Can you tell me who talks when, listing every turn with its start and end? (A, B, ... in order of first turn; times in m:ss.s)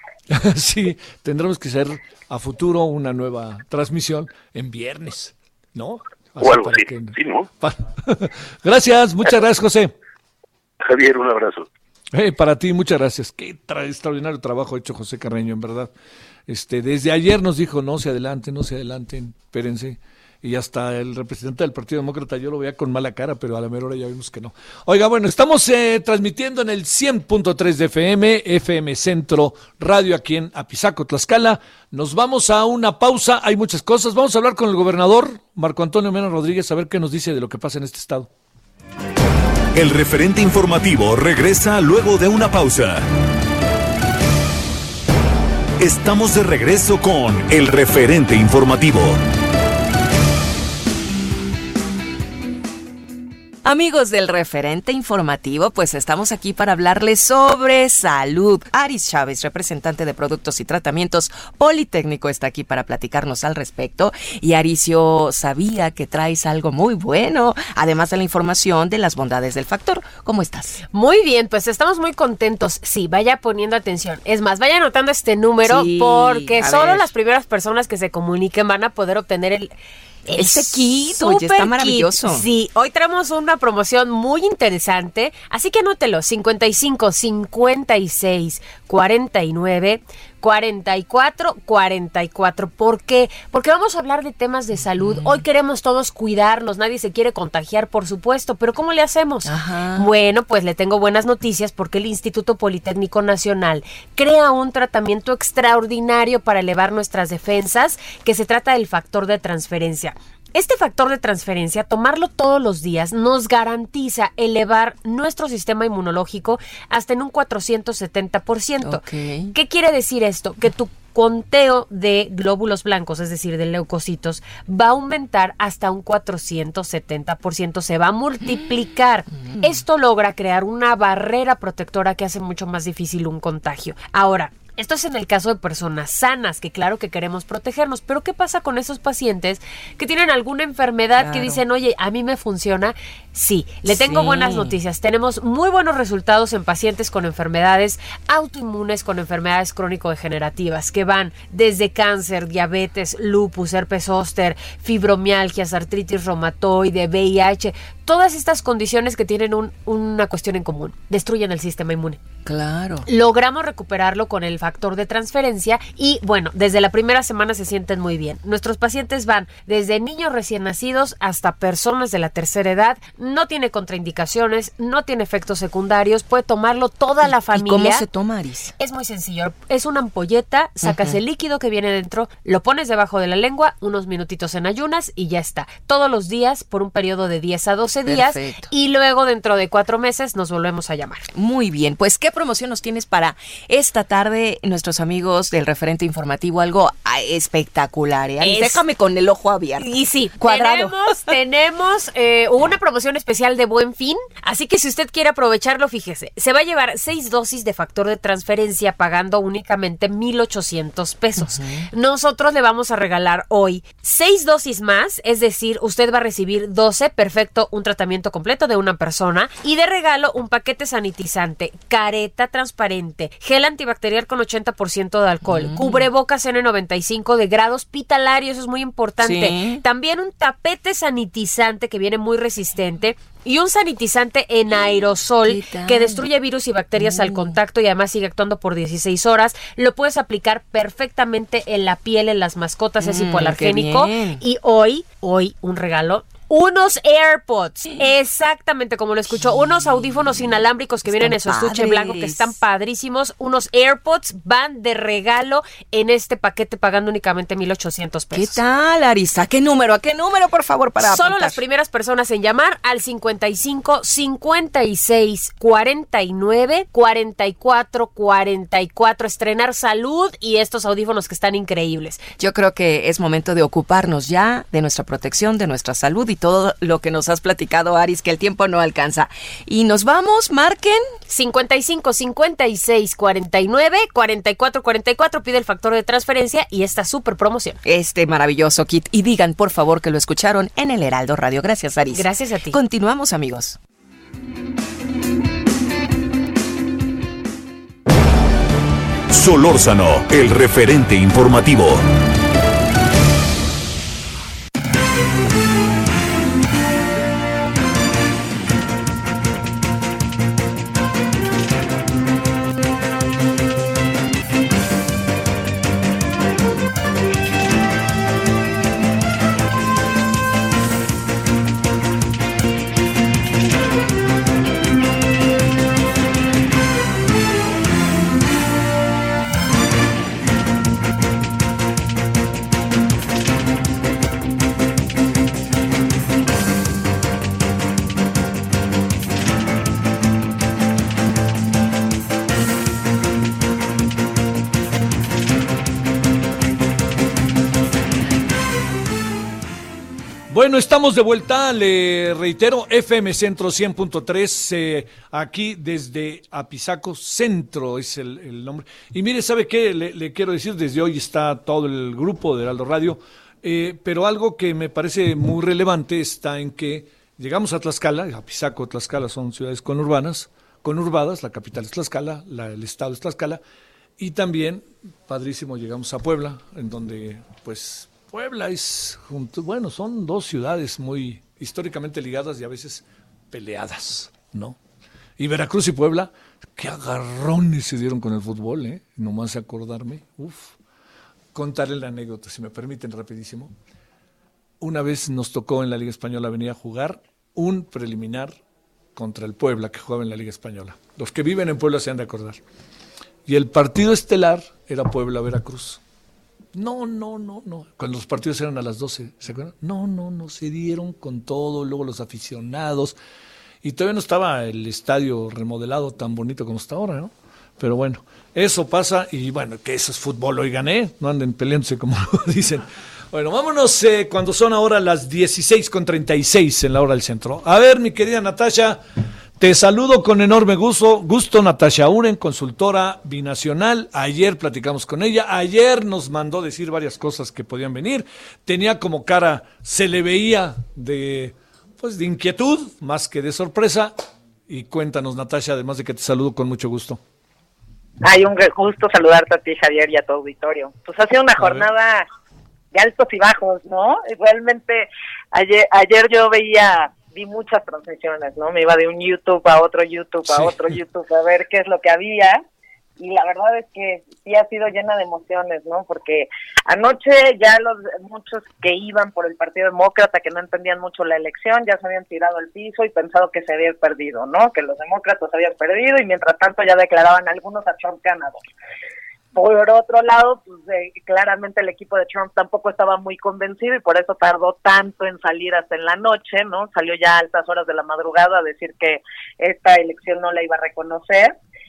0:00.3-0:09.9 A
0:06.4-0:07.5 B
0:10.8-0:11.7 B
0:12.1-0:15.9 A
0:16.5-0:38.3 A
0:39.7-0:43.1 C
0:45.8-0:49.2 C
0:53.6-1:10.8 D
1:10.9-1:19.7 E
1:15.6-1:17.1 D
1:20.2-2:42.2 E
1:20.3-1:22.5 D
1:35.0-1:35.4 D
1:39.4-1:40.1 D
1:58.8-1:59.5 D
2:09.3-2:09.8 D
2:21.2-2:21.6 D
2:23.8-2:24.8 D
2:42.4-2:43.1 D
2:43.1-2:58.0 E
2:57.2-2:58.7 D
2:58.8-3:11.3 E
3:00.8-3:01.2 D
3:08.0-3:08.7 D
3:11.3-3:21.4 D
3:18.4-3:18.8 E
3:19.8-4:18.6 E
3:31.4-3:31.9 D
3:45.4-3:46.1 D
3:49.2-3:49.8 D
3:55.4-3:56.3 D
3:57.0-3:57.6 D
4:03.0-4:04.4 D
4:09.4-4:09.8 D
4:10.4-4:12.5 D
4:18.3-4:21.6 D
4:21.0-4:32.3 E
4:32.4-4:41.2 D
4:41.3-4:47.8 E
4:47.8-4:53.8 D
4:52.1-4:52.8 E
4:59.3-5:02.1 C
5:50.5-6:13.6 A
6:14.2-6:24.8 A
6:25.4-6:30.8 A
6:31.5-6:33.7 A
6:34.8-6:38.5 A
6:39.2-6:42.6 A
6:43.4-6:46.0 A
6:46.7-6:53.2 A
6:53.8-7:09.0 A
7:09.6-7:24.1 A
7:24.7-7:27.2 A
7:28.2-7:32.3 F
7:31.6-7:31.8 A
7:32.9-7:42.6 F
7:40.5-7:40.7 A
7:43.2-7:58.6 F
7:59.5-8:11.5 F